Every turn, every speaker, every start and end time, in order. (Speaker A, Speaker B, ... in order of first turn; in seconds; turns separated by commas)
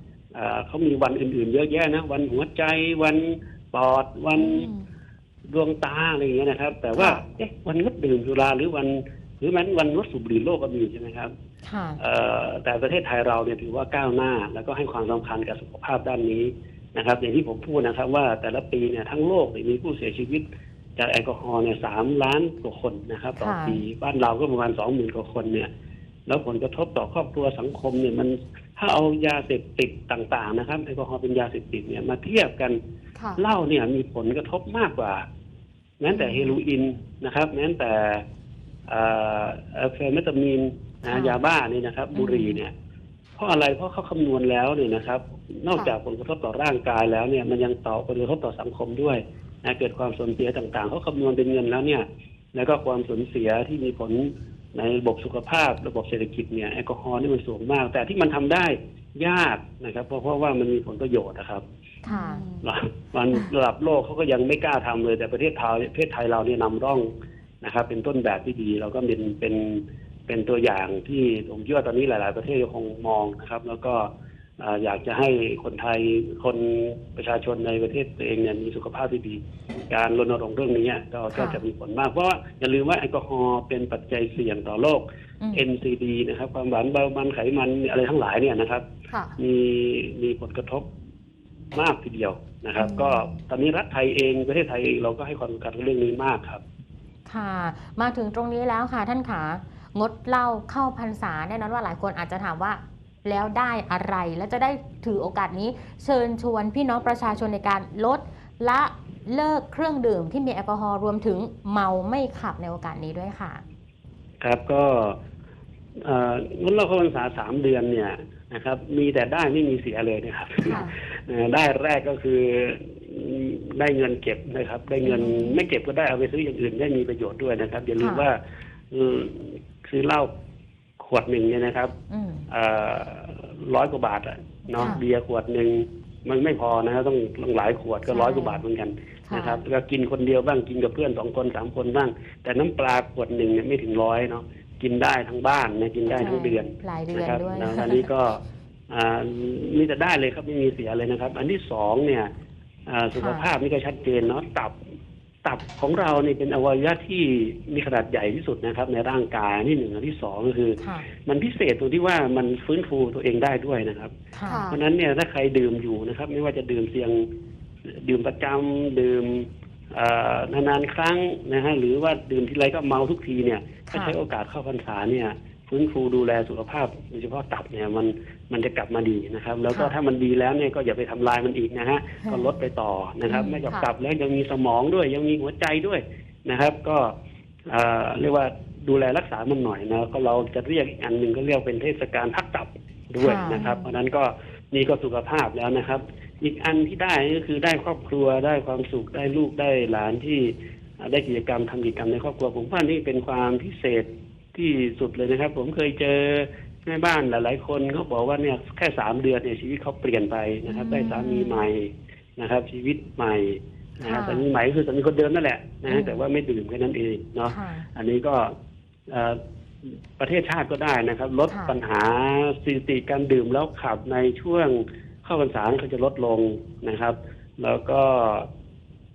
Speaker A: 0.3-4.7, Speaker B: 4.3-4.9, Speaker A: 5.5-11.3, Speaker B: 7.0-7.2, Speaker C: 11.6-12.0, Speaker A: 12.0-20.4, Speaker A: 21.0-25.7, Speaker C: 23.4-23.8, Speaker A: 26.3-32.8, Speaker B: 33.1-33.4, Speaker A: 33.4-35.2, Speaker A: 36.0-38.2, Speaker B: 36.1-36.5, Speaker A: 38.9-42.7, Speaker C: 41.1-41.4, Speaker C: 42.1-42.6, Speaker A: 43.4-61.6, Speaker B: 62.0-62.6, Speaker C: 62.0-62.4, Speaker A: 62.6-67.1, Speaker A: 67.6-74.1, Speaker A: 74.6-88.8, Speaker C: 81.3-81.6, Speaker B: 89.1-89.3, Speaker A: 89.4-90.9, Speaker A: 91.7-96.6, Speaker B: 92.7-93.3, Speaker C: 97.3-113.6, Speaker A: 114.4-115.2, Speaker A: 116.0-128.4, Speaker B: 120.7-120.9, Speaker C: 125.0-125.7, Speaker C: 128.0-128.2, Speaker A: 128.9-130.3, Speaker A: 131.0-131.9, Speaker C: 132.1-132.4, Speaker A: 132.5-152.3, Speaker C: 134.7-135.0, Speaker C: 138.1-138.6, Speaker C: 139.3-139.6, Speaker C: 146.1-147.9, Speaker A: 152.9-154.8, Speaker C: 153.2-153.4, Speaker A: 155.4-164.1, Speaker C: 160.8-161.1, Speaker C: 164.3-164.6, Speaker B: 164.4-164.8, Speaker A: 164.7-167.3, Speaker A: 167.9-187.1, Speaker C: 173.9-174.1, Speaker C: 179.7-179.9, Speaker C: 183.3-183.7, Speaker A: 187.7-218.5, Speaker C: 193.2-193.8, Speaker C: 210.7-211.6, Speaker C: 214.0-214.5, Speaker C: 215.9-216.2, Speaker C: 217.5-217.9, Speaker A: 219.1-228.5, Speaker C: 221.5-221.8